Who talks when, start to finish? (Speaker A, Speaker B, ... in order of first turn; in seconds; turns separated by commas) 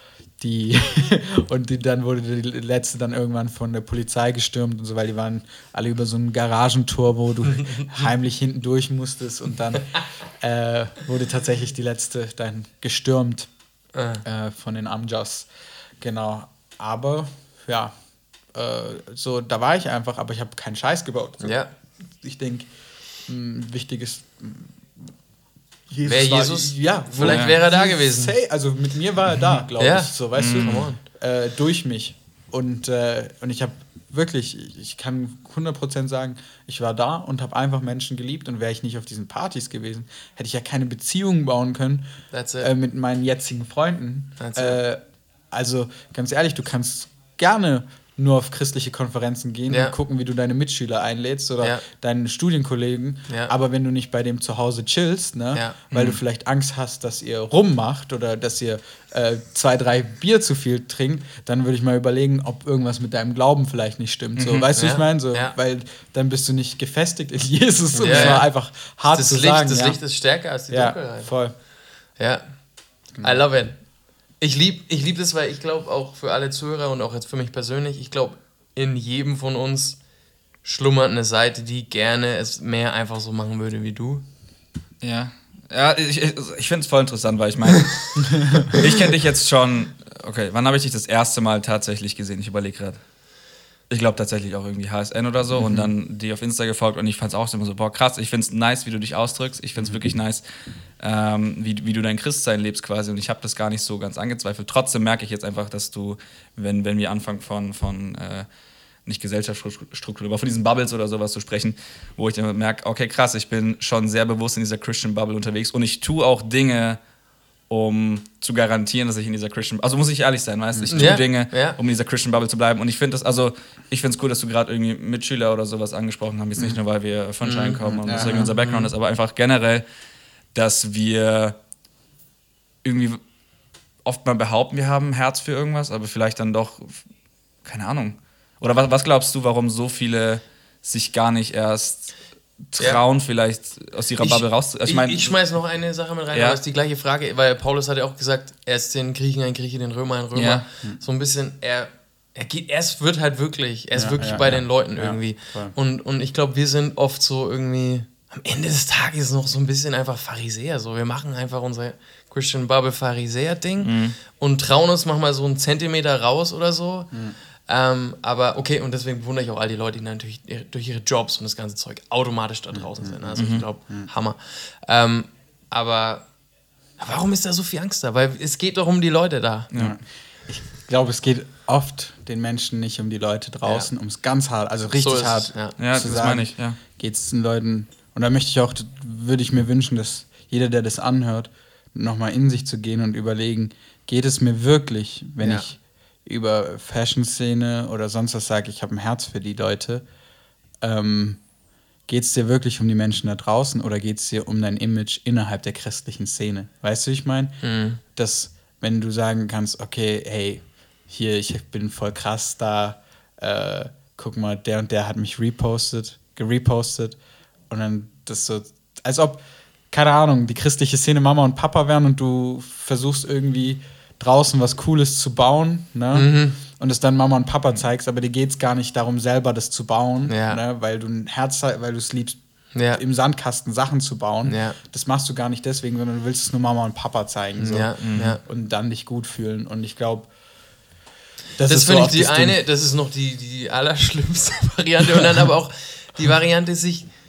Speaker A: 0.4-13.5, Speaker B: 13.9-14.2, Speaker A: 14.2-15.5, Speaker A: 16.0-18.0, Speaker A: 18.5-21.6, Speaker B: 21.4-21.7, Speaker A: 22.2-22.7, Speaker A: 23.3-24.9, Speaker A: 25.9-45.0, Speaker B: 26.1-28.4, Speaker C: 27.2-27.5, Speaker B: 29.8-31.0, Speaker C: 30.4-30.8, Speaker B: 42.3-42.7, Speaker B: 44.4-44.8, Speaker A: 45.5-70.0, Speaker B: 49.7-50.0, Speaker C: 55.9-56.2, Speaker C: 64.4-64.7, Speaker B: 64.8-65.5, Speaker B: 67.9-68.5, Speaker C: 68.0-68.4, Speaker B: 69.1-71.3, Speaker A: 70.7-71.6, Speaker B: 72.2-72.6, Speaker A: 73.1-73.4, Speaker B: 73.2-73.8, Speaker B: 74.4-80.0, Speaker B: 80.6-84.2, Speaker C: 85.0-93.0, Speaker A: 88.4-88.7, Speaker C: 93.9-100.4, Speaker A: 95.5-95.9, Speaker C: 101.0-108.5, Speaker C: 109.1-117.0, Speaker C: 117.7-129.8, Speaker A: 120.7-121.2, Speaker B: 120.9-121.8, Speaker B: 127.4-128.9, Speaker A: 127.8-128.5, Speaker C: 130.5-131.6, Speaker C: 132.8-133.2, Speaker C: 134.1-137.0, Speaker C: 137.6-142.1, Speaker C: 142.7-145.4, Speaker B: 144.2-176.3, Speaker C: 146.3-146.6, Speaker C: 150.3-150.6, Speaker A: 153.9-155.8, Speaker C: 163.8-164.2, Speaker A: 172.7-174.1, Speaker C: 173.4-173.6, Speaker B: 177.0-179.7, Speaker A: 179.8-200.1, Speaker B: 183.6-183.9, Speaker B: 184.9-185.8, Speaker C: 185.8-186.8, Speaker B: 195.4-195.7, Speaker A: 200.8-201.4, Speaker A: 202.1-217.2, Speaker B: 207.6-208.0, Speaker A: 217.7-232.4, Speaker B: 226.1-226.6, Speaker B: 230.3-230.6, Speaker B: 232.7-233.0, Speaker A: 232.9-240.3, Speaker B: 234.4-234.8, Speaker B: 237.6-238.4, Speaker C: 238.0-238.3, Speaker A: 241.6-242.6, Speaker B: 241.6-247.1